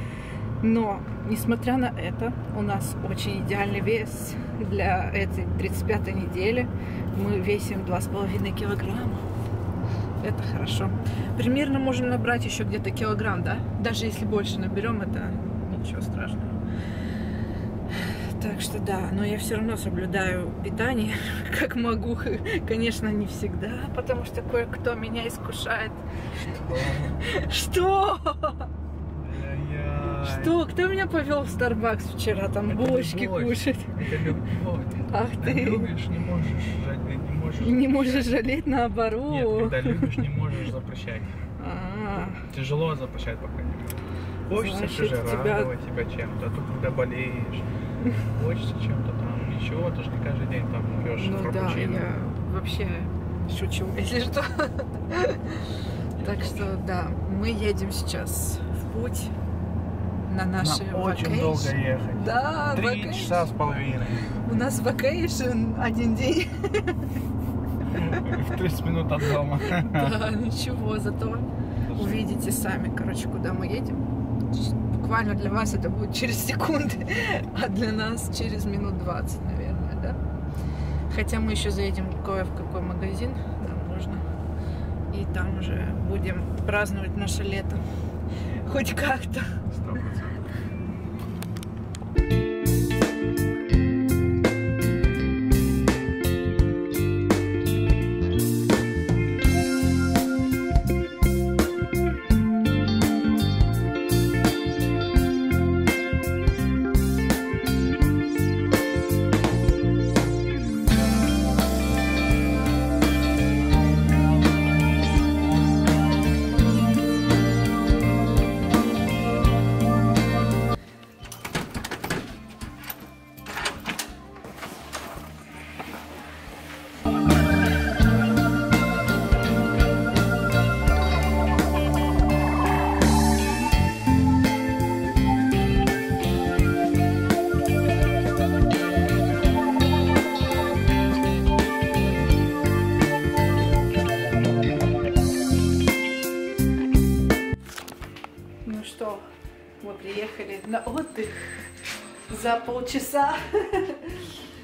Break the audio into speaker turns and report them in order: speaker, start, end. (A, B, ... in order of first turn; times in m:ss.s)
0:00.6-0:09.2 A
0:10.2-0:16.6 A
0:17.9-0:26.0 A
0:26.5-0:27.2 B
0:27.0-0:28.7 A
0:29.1-0:30.5 B
0:30.2-0:33.9 A
0:32.7-0:38.4 B
0:35.1-0:35.9 A
0:37.6-0:40.2 A
0:39.3-0:41.3 B
0:41.6-0:42.4 A
0:42.4-0:47.7 B
0:44.5-0:45.7 A
0:48.2-0:52.1 B
0:51.2-0:55.6 A
0:56.2-0:56.7 B
0:56.2-0:59.3 A
1:00.3-1:03.5 A
1:00.6-1:04.4 B
1:04.4-1:07.1 A
1:07.9-1:10.1 B
1:09.6-1:20.2 A
1:11.9-1:12.2 B
1:21.1-1:24.2 A
1:25.1-1:27.8 A
1:28.6-1:29.6 A
1:29.6-1:30.4 B
2:28.6-2:29.3 A
2:29.8-2:31.5 A
2:32.3-2:34.3 A